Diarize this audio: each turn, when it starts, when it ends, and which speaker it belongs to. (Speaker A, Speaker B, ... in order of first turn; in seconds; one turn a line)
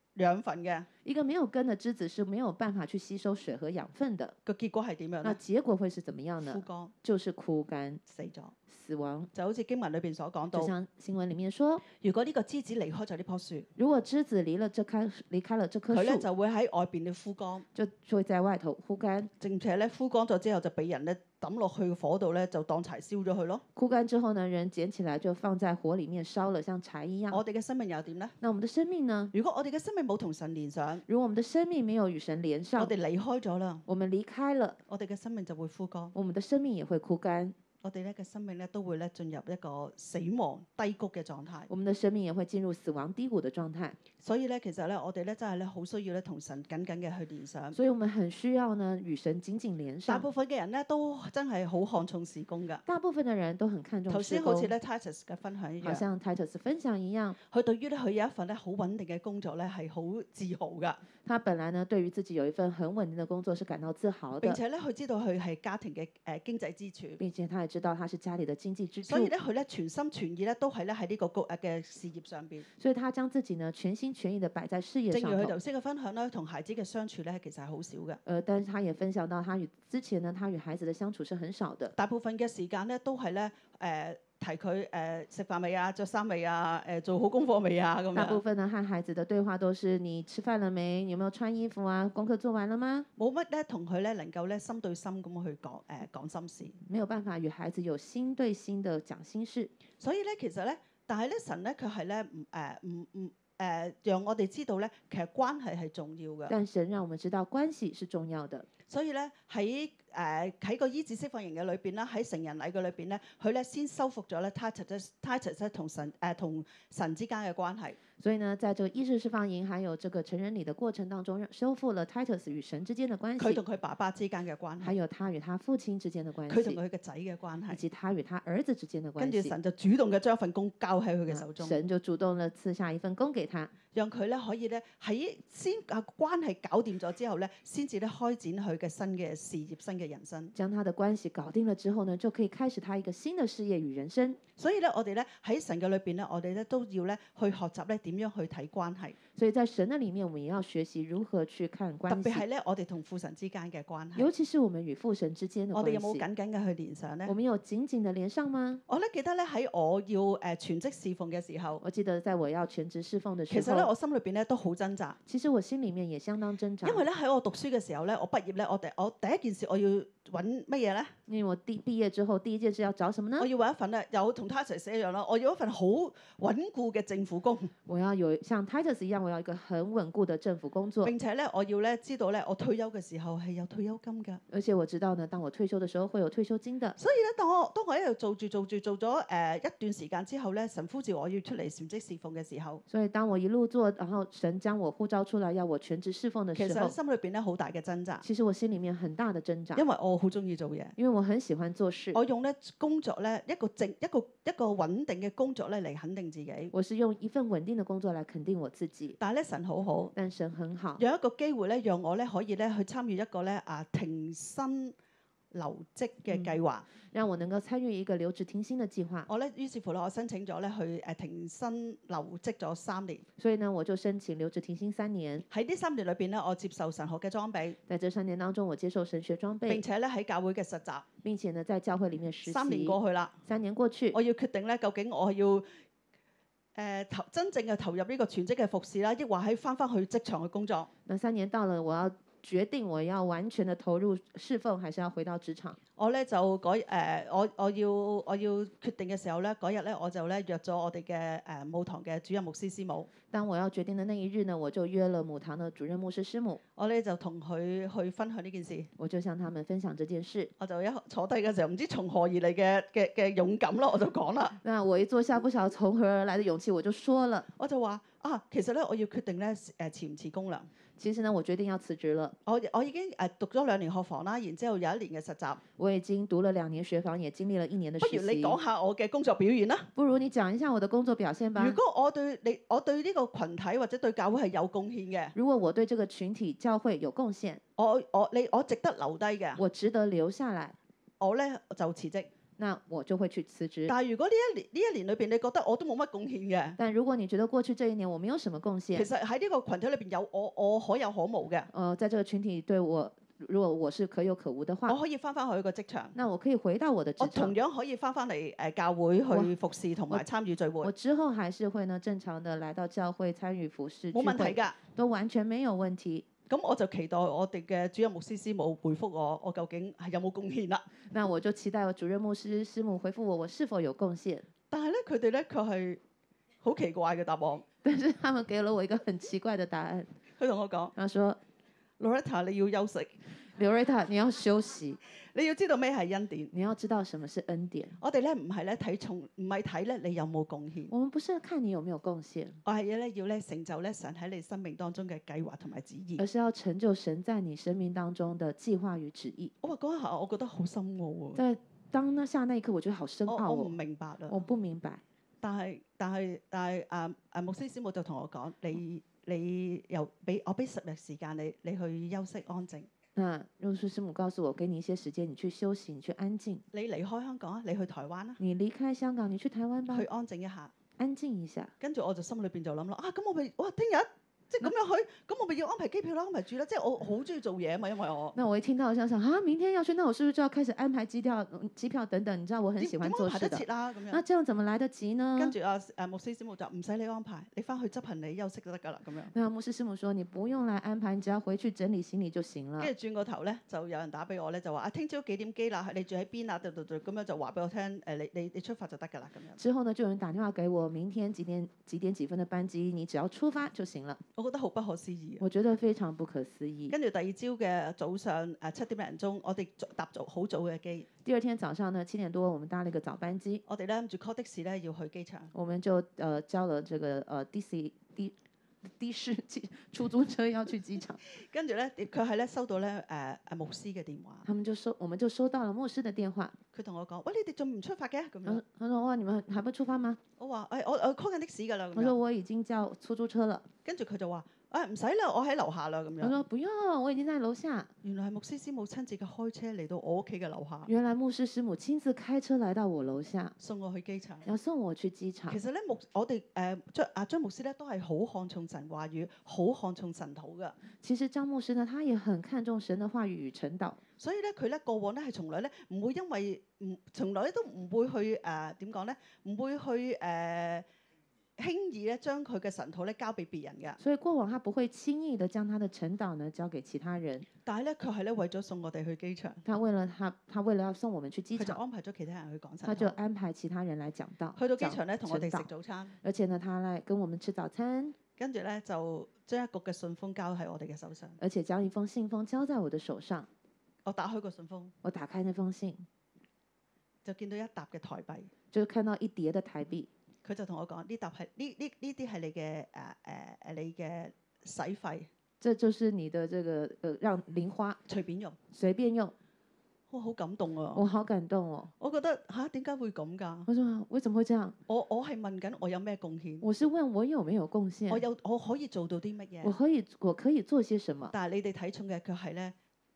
Speaker A: 0.2-0.9
Speaker B: 1.1-4.3
Speaker A: 4.5-5.4
Speaker B: 5.2-8.0
Speaker A: 6.4-6.9
Speaker A: 8.1-8.5
Speaker B: 8.7-9.3
Speaker A: 9.3-10.7
Speaker B: 10.5-11.8
Speaker A: 11.9-13.7
Speaker B: 13.8-16.2
Speaker A: 15.9-17.6
Speaker B: 17.8-19.3
Speaker A: 19.4-23.6
Speaker B: 23.8-27.4
Speaker A: 27.3-28.4
Speaker B: 28.4-29.3
Speaker A: 29.3-31.0
Speaker B: 31.1-32.9
Speaker A: 32.8-33.8
Speaker B: 33.9-34.8
Speaker A: 34.9-36.1
Speaker B: 36.1-37.5
Speaker A: 37.8-41.7
Speaker B: 41.7-44.0
Speaker A: 44.2-47.8
Speaker B: 47.8-50.3
Speaker A: 50.1-52.8
Speaker B: 52.9-54.7
Speaker A: 54.1-56.0
Speaker B: 55.8-57.4
Speaker A: 57.5-61.0
Speaker B: 61.2-64.6
Speaker A: 64.4-67.2
Speaker B: 67.2-69.3
Speaker A: 69.1-72.7
Speaker B: 72.8-75.6
Speaker A: 75.1-78.2
Speaker B: 78.3-81.9
Speaker A: 82.0-88.4
Speaker B: 88.2-93.1
Speaker A: 93.2-96.8
Speaker B: 96.9-99.7
Speaker A: 100.0-106.5
Speaker B: 106.5-108.7
Speaker A: 108.9-118.0
Speaker B: 118.2-123.6
Speaker A: 123.4-125.0
Speaker B: 124.8-126.8
Speaker A: 126.5-127.8
Speaker B: 127.7-129.6
Speaker A: 129.2-131.8
Speaker B: 131.3-133.7
Speaker A: 133.9-140.6
Speaker B: 140.6-144.4
Speaker A: 144.6-149.2
Speaker B: 149.3-152.4
Speaker A: 152.1-154.3
Speaker B: 154.2-156.3
Speaker A: 155.7-157.3
Speaker B: 157.3-158.8
Speaker A: 158.9-161.8
Speaker B: 161.8-163.9
Speaker A: 163.5-165.2
Speaker B: 165.3-167.1
Speaker A: 166.8-171.1
Speaker B: 171.3-173.5
Speaker A: 173.4-177.7
Speaker B: 177.9-181.1
Speaker A: 181.0-184.4
Speaker B: 184.5-187.0
Speaker A: 187.0-192.8
Speaker B: 192.9-196.9
Speaker A: 196.6-198.2
Speaker B: 198.2-199.8
Speaker A: 199.8-200.9
Speaker B: 201.0-202.2
Speaker A: 202.1-206.7
Speaker B: 206.7-209.2
Speaker A: 209.2-210.1
Speaker B: 210.2-211.0
Speaker A: 211.0-214.9
Speaker A: 215.5-216.9
Speaker B: 217.1-219.3
Speaker A: 219.3-223.2
Speaker B: 223.4-225.5
Speaker A: 225.5-227.8
Speaker B: 227.9-229.8
Speaker A: 229.7-231.1
Speaker B: 231.2-234.2
Speaker A: 232.4-233.3
Speaker A: 234.1-235.7
Speaker A: 236.8-240.9
Speaker B: 241.1-245.8
Speaker A: 246.0-253.1
Speaker B: 253.3-256.6
Speaker A: 256.8-258.9
Speaker B: 259.0-260.5
Speaker A: 260.6-264.6
Speaker B: 264.6-267.5
Speaker A: 267.6-270.7
Speaker B: 271.0-272.4
Speaker A: 272.5-275.6
Speaker B: 275.8-278.6
Speaker A: 278.0-279.9
Speaker B: 279.9-281.8
Speaker A: 281.6-285.3
Speaker B: 285.4-287.6
Speaker A: 287.8-289.6
Speaker B: 289.6-290.8
Speaker A: 291.2-292.3
Speaker B: 292.6-293.9
Speaker A: 293.9-296.8
Speaker B: 296.8-299.1
Speaker A: 298.9-301.7
Speaker B: 301.7-305.0
Speaker A: 304.9-306.1
Speaker B: 306.1-307.6
Speaker A: 307.2-310.9
Speaker B: 310.8-316.3
Speaker A: 314.1-314.8
Speaker A: 316.5-320.9
Speaker B: 321.1-324.5
Speaker A: 324.7-326.0
Speaker A: 326.6-327.6
Speaker B: 327.8-330.1
Speaker A: 330.4-330.9
Speaker B: 331.0-331.4
Speaker A: 332.0-333.1
Speaker B: 333.6-335.0
Speaker A: 335.3-336.5
Speaker B: 336.5-338.0
Speaker A: 338.0-340.9
Speaker B: 340.9-342.6
Speaker A: 342.6-346.2
Speaker B: 346.2-349.5
Speaker A: 349.6-351.4
Speaker B: 351.4-353.7
Speaker A: 353.3-354.4
Speaker B: 354.3-355.0
Speaker A: 355.4-362.9
Speaker B: 363.2-366.6
Speaker A: 366.7-368.4
Speaker B: 368.4-370.1
Speaker A: 369.9-370.7
Speaker B: 371.0-371.7
Speaker A: 371.8-378.4
Speaker B: 378.4-385.6
Speaker A: 382.8-384.2
Speaker A: 385.4-389.3
Speaker B: 389.3-392.9
Speaker A: 392.8-399.6
Speaker B: 399.6-404.2
Speaker A: 404.4-405.4
Speaker B: 405.4-406.9
Speaker A: 406.9-411.1
Speaker B: 411.2-413.6
Speaker A: 413.7-415.5
Speaker B: 415.5-418.3
Speaker B: 418.9-421.2
Speaker A: 421.3-424.5
Speaker B: 424.5-426.6
Speaker A: 426.7-428.6
Speaker B: 428.5-430.2
Speaker A: 430.4-432.1
Speaker B: 431.9-433.7
Speaker A: 433.9-436.4
Speaker B: 436.2-437.9
Speaker A: 438.0-440.9
Speaker B: 440.9-443.6
Speaker A: 443.6-444.5
Speaker B: 444.5-445.6
Speaker A: 445.5-450.8
Speaker B: 451.0-454.0
Speaker A: 454.2-460.9
Speaker A: 461.6-464.0
Speaker B: 464.0-467.5
Speaker A: 467.7-469.6
Speaker B: 469.6-471.8
Speaker A: 471.6-473.2
Speaker B: 472.9-475.7
Speaker A: 474.6-476.1
Speaker B: 476.2-478.2
Speaker A: 478.4-481.4
Speaker B: 481.4-483.5
Speaker A: 484.1-484.9
Speaker B: 485.0-486.1
Speaker A: 487.2-488.5
Speaker B: 488.7-490.1
Speaker A: 490.4-495.3
Speaker B: 495.6-498.0
Speaker A: 498.1-498.6
Speaker B: 498.7-499.3
Speaker A: 500.1-501.0
Speaker B: 500.9-501.9
Speaker A: 502.0-503.7
Speaker B: 503.7-504.8
Speaker A: 504.9-506.6
Speaker B: 506.6-508.2
Speaker A: 508.1-509.8
Speaker B: 509.6-511.3
Speaker A: 511.3-512.7